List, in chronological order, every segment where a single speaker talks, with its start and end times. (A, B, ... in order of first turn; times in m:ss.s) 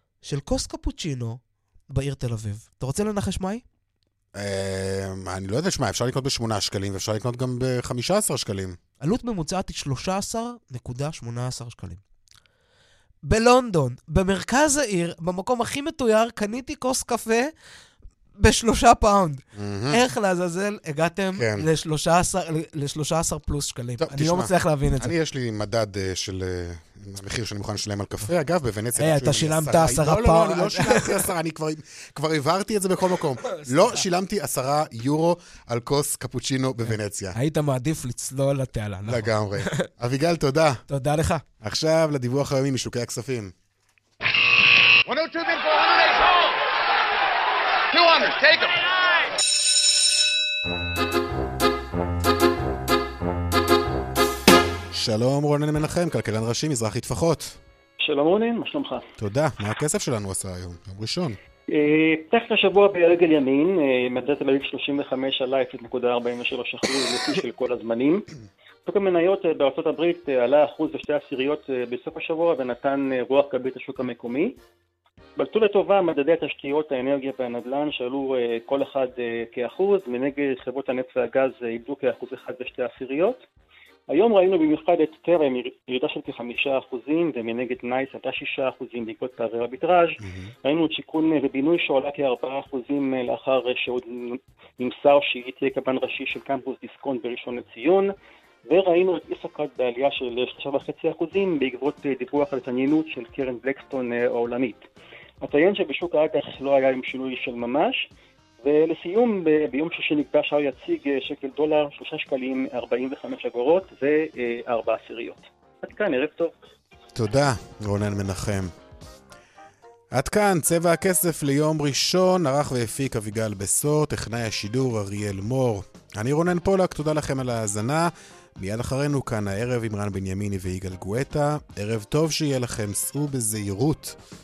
0:00.2-0:03.6 A
0:04.3-0:08.8 B
0:09.0-0:12.0 A
0:13.2-0:17.5 A
0:18.4-0:25.1 A
0:19.6-0:20.0 B
0:21.3-0:21.7 B
0:24.0-0:37.4 B
0:29.0-0:31.2 A
0:33.5-0:34.0 A
0:36.8-0:39.9 A
0:39.0-0:40.8 B
0:40.9-0:41.4 A
0:41.6-0:43.5 B
0:45.1-0:46.5 C
0:47.9-0:48.8 C
0:54.9-0:57.6 B
0:58.0-0:59.0 D
0:59.2-1:01.4 B
1:01.7-1:08.2 D
1:08.8-1:14.5 D
1:15.4-1:23.4 D
1:24.1-1:38.1 D
1:30.2-1:30.5 B
1:38.7-1:44.8 D
1:45.4-1:48.1 D
1:48.6-1:56.5 D
1:57.1-1:58.7 B
2:00.1-2:14.2 B